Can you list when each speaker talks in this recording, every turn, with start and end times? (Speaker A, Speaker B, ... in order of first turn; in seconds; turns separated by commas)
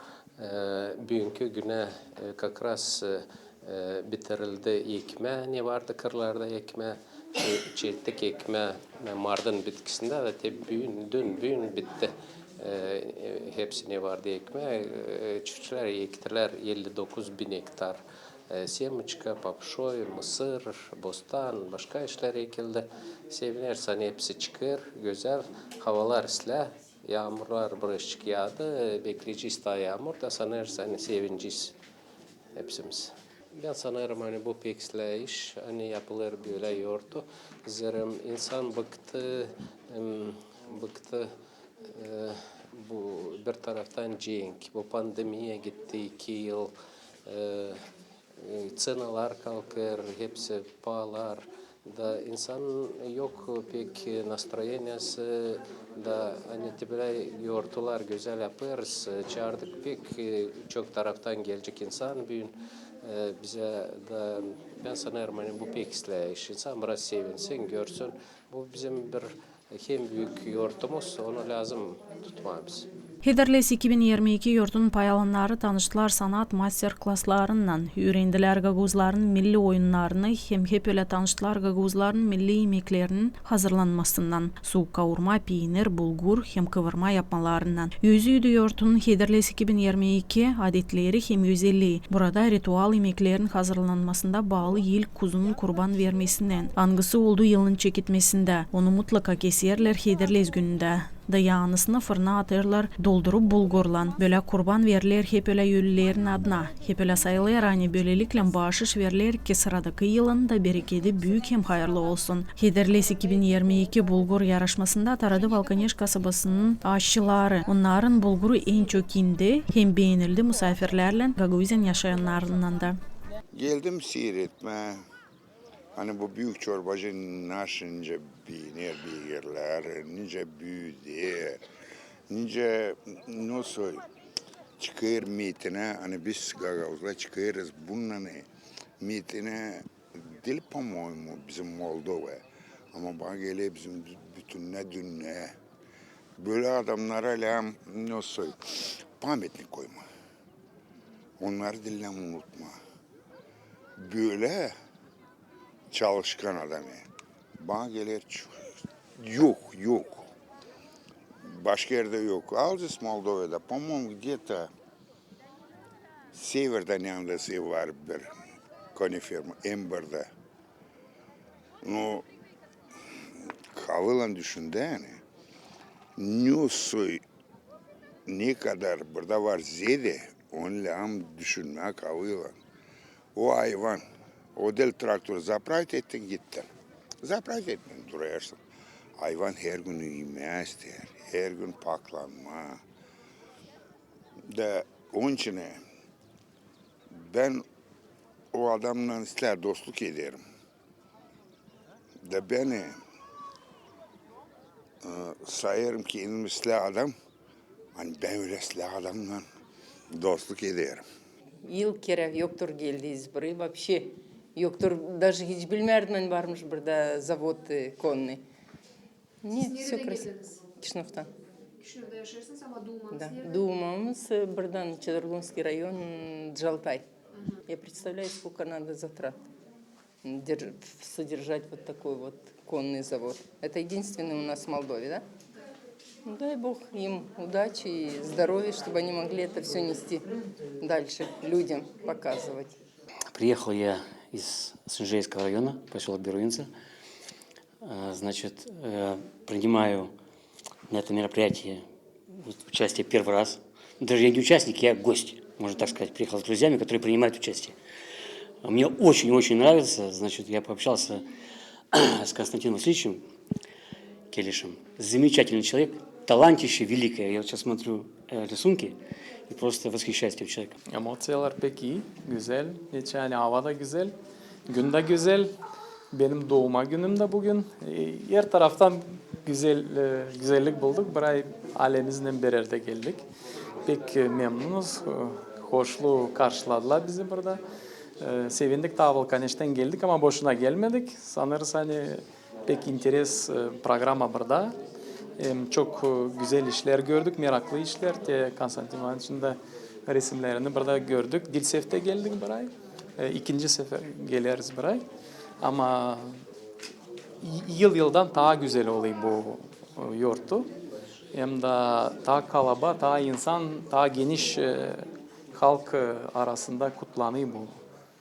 Speaker A: 0.4-31.7, Speaker A: 32.5-41.3, Speaker A: 41.9-46.7, Speaker A: 47.2-47.8, Speaker A: 48.4-72.9, Speaker B: 73.2-123.0, Speaker C: 123.5-125.0, Speaker C: 126.0-131.6, Speaker C: 132.3-134.0, Speaker C: 134.8-138.5, Speaker C: 139.0-145.5, Speaker C: 146.4-150.0, Speaker C: 151.4-152.7, Speaker C: 154.0-154.7, Speaker C: 155.9-157.1, Speaker C: 157.6-158.5, Speaker C: 159.2-160.3, Speaker C: 161.4-164.7, Speaker C: 166.3-168.3, Speaker C: 168.9-170.3, Speaker C: 171.8-172.2, Speaker C: 173.4-175.2, Speaker C: 176.2-177.2, Speaker C: 178.3-182.5, Speaker C: 183.3-184.0, Speaker C: 184.5-186.7, Speaker C: 187.2-188.6, Speaker C: 189.2-192.8, Speaker C: 194.5-195.8, Speaker C: 197.1-197.6, Speaker C: 198.5-200.4, Speaker C: 202.2-203.0, Speaker C: 205.0-207.1, Speaker C: 207.9-209.4, Speaker C: 210.1-211.0, Speaker D: 211.6-218.4, Speaker D: 219.4-220.3, Speaker E: 219.5-220.6, Speaker D: 220.8-221.3, Speaker E: 221.8-223.7, Speaker D: 223.1-227.0, Speaker E: 227.3-227.6, Speaker D: 227.7-229.4, Speaker D: 230.2-235.2, Speaker D: 236.2-240.2, Speaker D: 240.8-242.8, Speaker F: 243.3-246.7, Speaker F: 247.8-250.1, Speaker F: 250.9-251.8, Speaker F: 252.7-257.7, Speaker F: 258.6-261.2, Speaker F: 262.0-263.2, Speaker F: 264.3-268.9, Speaker F: 269.5-270.7, Speaker G: 270.9-274.1, Speaker G: 274.7-275.5, Speaker G: 276.1-283.2, Speaker G: 283.8-287.6, Speaker G: 288.2-294.8, Speaker G: 295.4-305.0, Speaker G: 305.6-306.4, Speaker G: 307.4-310.7, Speaker G: 311.3-317.8